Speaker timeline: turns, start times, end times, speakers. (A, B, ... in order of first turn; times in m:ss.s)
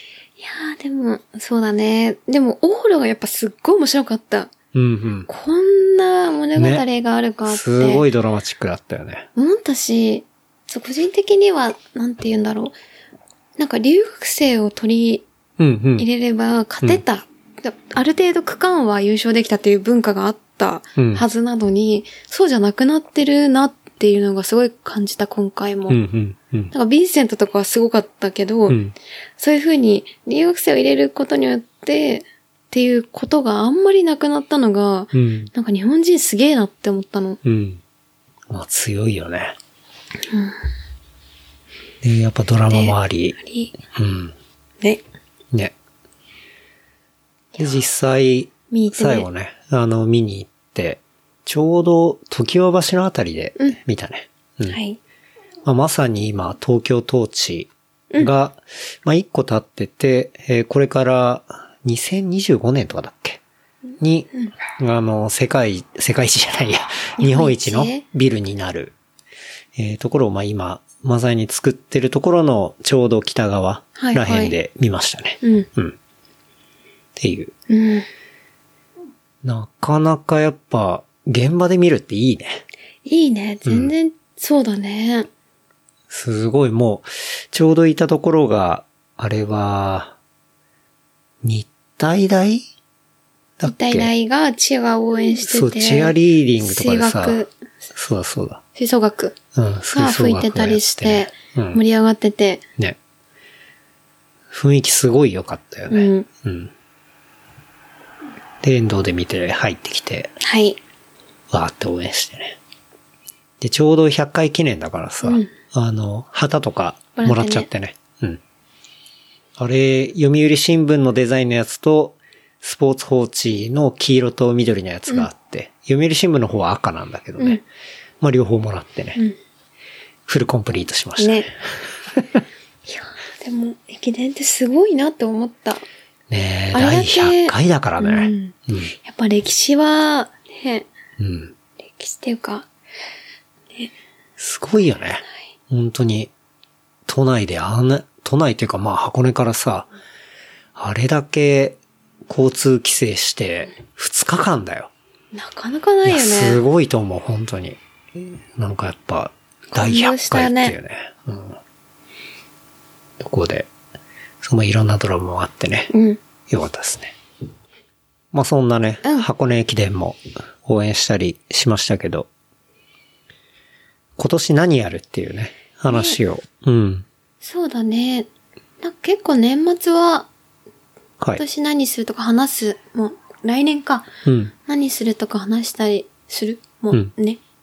0:00.4-0:04.5 A
0:04.7-0:05.3 B
0:05.3-0:08.0 A
0:06.5-0:06.8 B
0:07.5-0:09.3 B
0:09.4-0:12.8 A
0:13.6-0:15.2 A
0:15.6-0:16.0 B
0:16.0-0:26.0 A
0:21.0-0:21.2 B
0:25.9-0:26.7 B
0:26.7-0:28.8 A
0:28.7-0:28.9 B
0:29.4-0:37.4 A
0:35.1-0:35.5 B
0:37.4-0:37.8 B
0:38.5-0:39.6 B
0:40.3-0:40.6 A
0:42.0-0:43.4 B
0:42.7-0:43.7 A
0:43.9-0:44.3 B
0:47.6-0:54.8 B
0:48.7-0:49.3 A
0:54.7-0:55.0 A
0:55.6-1:03.4 B
1:04.0-1:08.9 B
1:07.2-1:08.0 A
1:09.8-1:16.0 B
1:14.0-1:14.6 A
1:15.4-1:15.7 A
1:17.2-1:17.5 B
1:17.7-1:18.0 A
1:19.4-1:22.6 B
1:23.0-1:25.3 A
1:23.6-1:23.9 B
1:26.1-1:30.2 B
1:31.4-1:32.7 B
1:33.6-1:34.1 B
1:33.6-1:37.5 A
1:35.4-1:37.4 B
1:37.9-1:38.6 B
1:38.7-1:39.4 A
1:39.5-1:41.8 B
1:39.9-1:42.6 A
1:44.5-1:46.7 B
1:45.9-1:46.3 A
1:48.6-1:50.3 B
1:50.4-1:50.8 A
1:51.5-1:52.6 B
1:53.6-1:58.4 B
1:55.2-1:55.5 A
1:57.2-1:57.7 A
1:59.6-2:07.6 B
2:08.2-2:09.2 B
2:10.3-2:12.4 B
2:11.2-2:11.5 A
2:12.9-2:15.8 A
2:16.3-2:18.9 B
2:16.7-2:20.9 A
2:21.2-2:21.5 B
2:21.8-2:22.7 A
2:24.4-2:26.3 B
2:27.0-2:29.9 B
2:30.8-2:34.9 B
2:35.3-2:36.6 A
2:36.0-2:41.6 B
2:39.7-2:40.8 A
2:43.2-2:43.7 B
2:44.4-2:45.9 B
2:45.9-2:46.2 A
2:46.5-2:47.1 B
2:48.3-2:52.3 B
2:49.0-2:49.3 A
2:54.2-2:57.0 B
2:55.9-2:56.2 A
2:57.4-2:58.3 A
2:58.8-3:00.3 A
3:01.4-3:04.1 A
3:04.2-3:04.5 B
3:04.6-3:07.4 A